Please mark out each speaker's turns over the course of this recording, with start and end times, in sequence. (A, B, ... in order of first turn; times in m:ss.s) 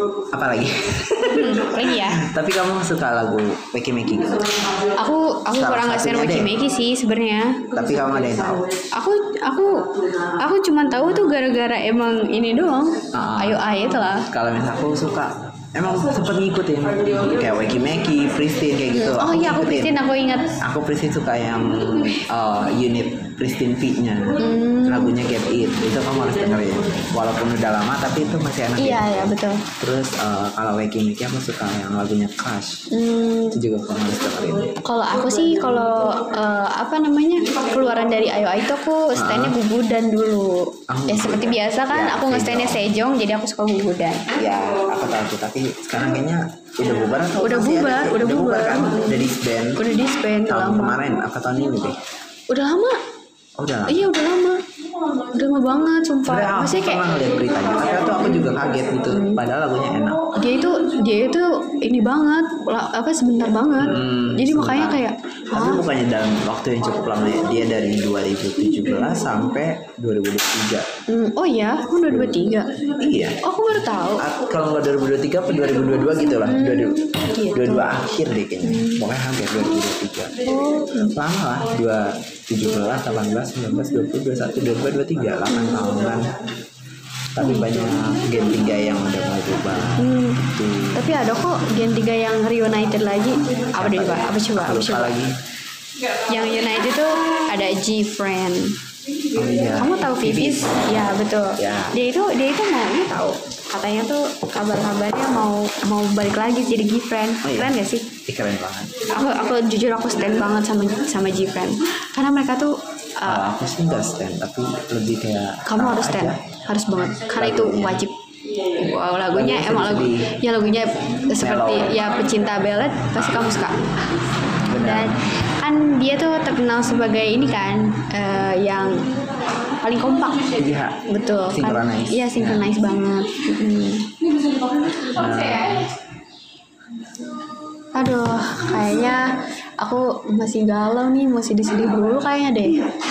0:00.3-0:04.6 A
0:01.3-0:02.3 B
0:04.9-0:07.7 B
0:05.5-0:06.5 A
0:07.7-0:08.7 A
0:08.9-0:14.3 B
0:13.1-0:13.6 A
0:14.3-0:20.0 A
0:18.9-0:20.6 B
0:20.6-0:32.9 A
0:24.4-0:25.2 B
0:28.8-0:29.6 B
0:32.9-0:33.6 B
0:33.5-0:34.8 A
0:34.8-0:44.3 B
0:39.2-0:39.6 A
0:40.9-0:43.0 A
0:44.3-0:49.9 A
0:47.4-0:51.0 B
0:50.4-0:52.0 A
0:52.5-0:53.0 B
0:53.6-0:54.1 A
0:53.9-0:54.6 B
0:55.2-0:57.0 B
0:56.2-1:00.3 A
0:58.2-0:58.6 B
0:59.1-0:59.4 B
1:00.3-1:05.8 B
1:03.8-1:10.9 A
1:11.1-1:12.8 B
1:12.1-1:13.4 A
1:13.4-1:14.3 B
1:14.2-1:20.4 A
1:16.4-1:17.9 B
1:18.6-1:19.0 B
1:20.5-1:21.1 B
1:20.9-1:26.4 A
1:27.3-1:31.1 A
1:27.4-1:28.0 B
1:30.0-1:30.4 B
1:31.0-1:35.2 B
1:33.8-1:35.4 A
1:36.1-1:38.8 B
1:39.3-1:40.9 A
1:39.7-1:48.1 B
1:41.6-1:42.0 A
1:47.4-1:49.0 A
1:49.0-1:53.4 B
1:53.2-1:56.4 A
1:55.7-2:03.9 B
1:57.3-1:58.0 A
1:59.3-2:00.4 A
2:01.4-2:02.0 A
2:03.2-2:03.8 A
2:04.6-2:05.4 A
2:04.7-2:09.1 B
2:09.7-2:14.2 B
2:10.5-2:12.7 A
2:14.8-2:15.8 B
2:15.0-2:15.9 A
2:17.9-2:22.9 B